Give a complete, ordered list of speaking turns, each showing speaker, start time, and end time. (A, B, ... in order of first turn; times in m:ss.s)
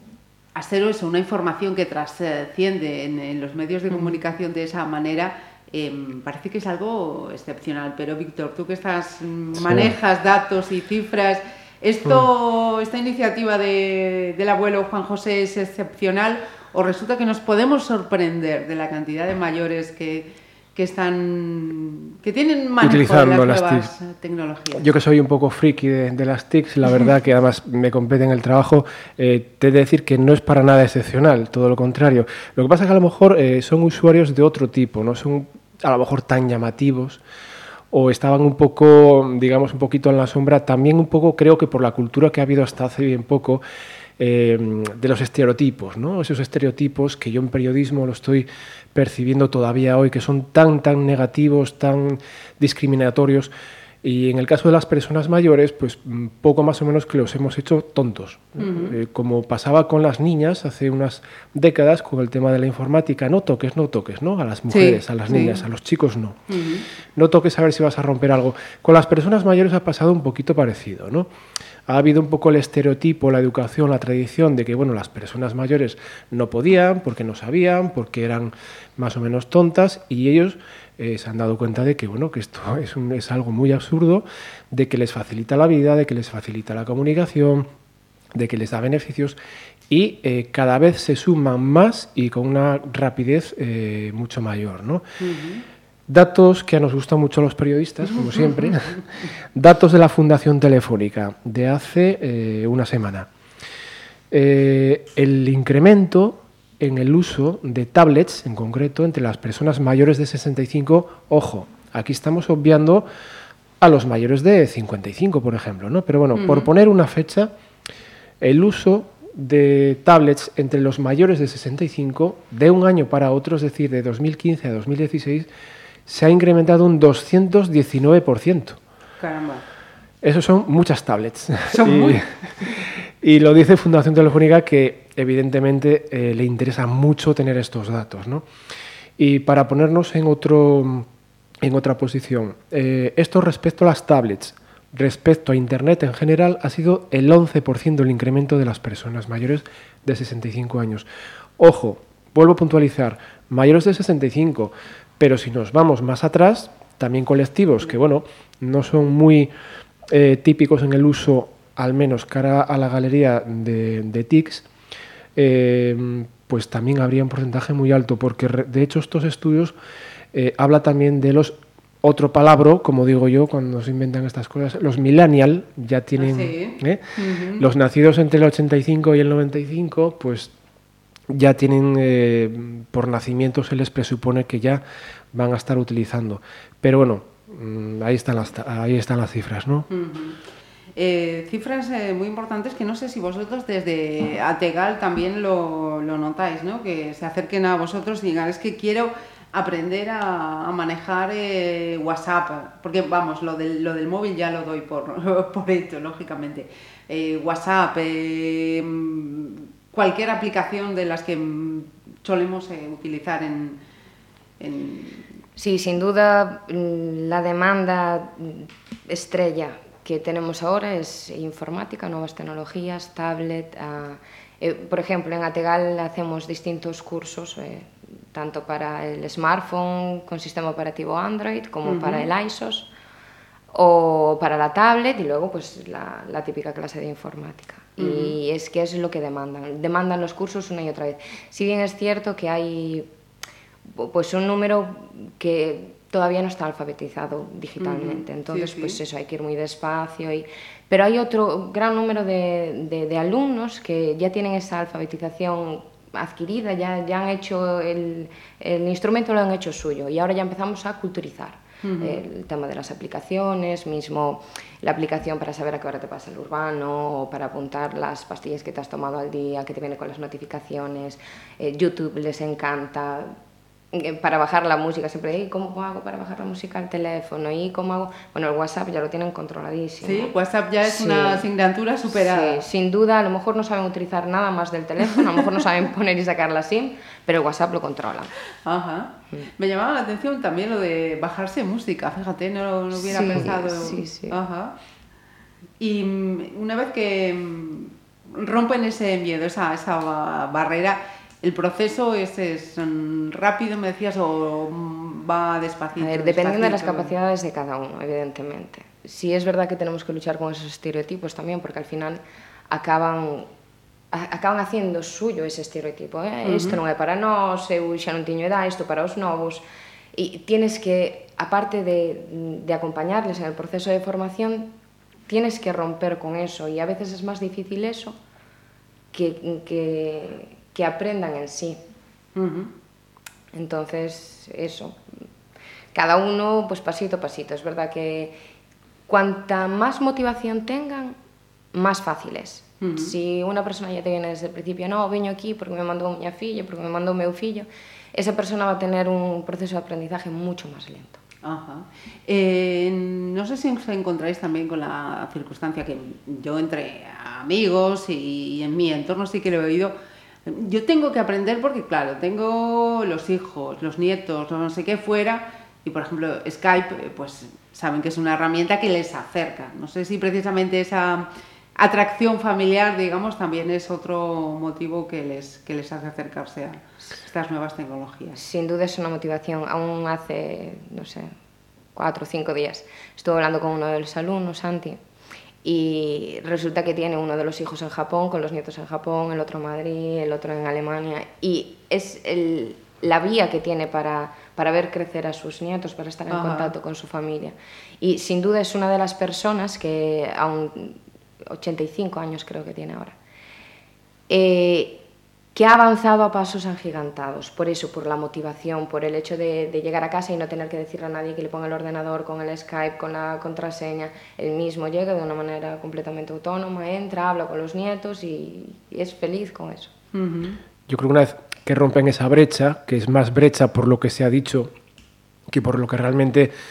0:00.5-0:24.9 A
0:09.6-0:09.9 B
0:22.8-0:23.9 B
0:24.8-0:37.2 B
0:37.9-0:43.6 B
0:44.2-0:53.5 B
0:54.0-1:06.4 B
0:58.6-0:59.0 A
1:04.7-1:05.6 A
1:06.5-1:06.8 A
1:07.1-1:11.3 B
1:11.9-1:27.7 B
1:28.3-1:29.4 B
1:29.9-1:35.0 B
1:35.2-1:35.6 A
1:36.1-1:39.0 B
1:39.5-1:43.3 B
1:44.3-1:53.1 B
1:53.8-1:57.5 B
1:56.3-1:56.7 A
1:58.4-2:05.5 B
2:06.1-2:08.8 B
2:09.2-2:09.6 A
2:10.2-2:12.6 B
2:11.7-2:12.8 A
2:13.2-2:18.4 B
2:19.2-2:21.1 B
2:21.6-2:31.0 B
2:31.6-2:39.5 B
2:40.1-2:44.6 B
2:45.4-2:49.7 B
2:50.3-2:57.0 B
2:56.2-2:57.6 A
2:57.6-3:00.5 B
3:01.3-3:09.9 B
3:09.9-3:10.4 A
3:11.0-3:33.8 A
3:34.6-3:35.3 A
3:35.6-3:52.9 C
3:51.8-3:52.3 A
3:53.7-4:03.1 C
3:58.0-3:58.3 A
4:03.9-4:33.3 C
4:07.8-4:09.0 A
4:21.8-4:22.2 A
4:33.9-4:40.3 C
4:40.0-4:42.6 A
4:40.8-4:41.4 C
4:42.1-4:48.3 C
4:48.6-4:54.7 A
4:53.0-4:54.4 C
4:55.8-5:07.1 A
5:06.0-5:13.5 C
5:14.1-5:19.6 C
5:16.4-5:16.8 A
5:20.1-5:24.7 C
5:25.3-5:28.2 C
5:29.1-5:31.8 C
5:32.3-5:32.7 A
5:33.5-5:35.0 C
5:35.9-5:38.4 C
5:39.1-5:41.2 C
5:41.7-5:51.2 C
5:42.8-5:43.1 A
5:51.4-5:59.9 A
6:00.4-6:18.4 A
6:18.4-6:21.3 C
6:21.9-6:25.0 C
6:25.6-6:41.0 C
6:36.3-6:36.7 A
6:41.5-6:43.2 C
6:44.3-6:45.0 C
6:45.5-6:59.9 C
7:00.1-7:00.6 A
7:00.9-7:04.7 B
7:05.5-7:06.5 B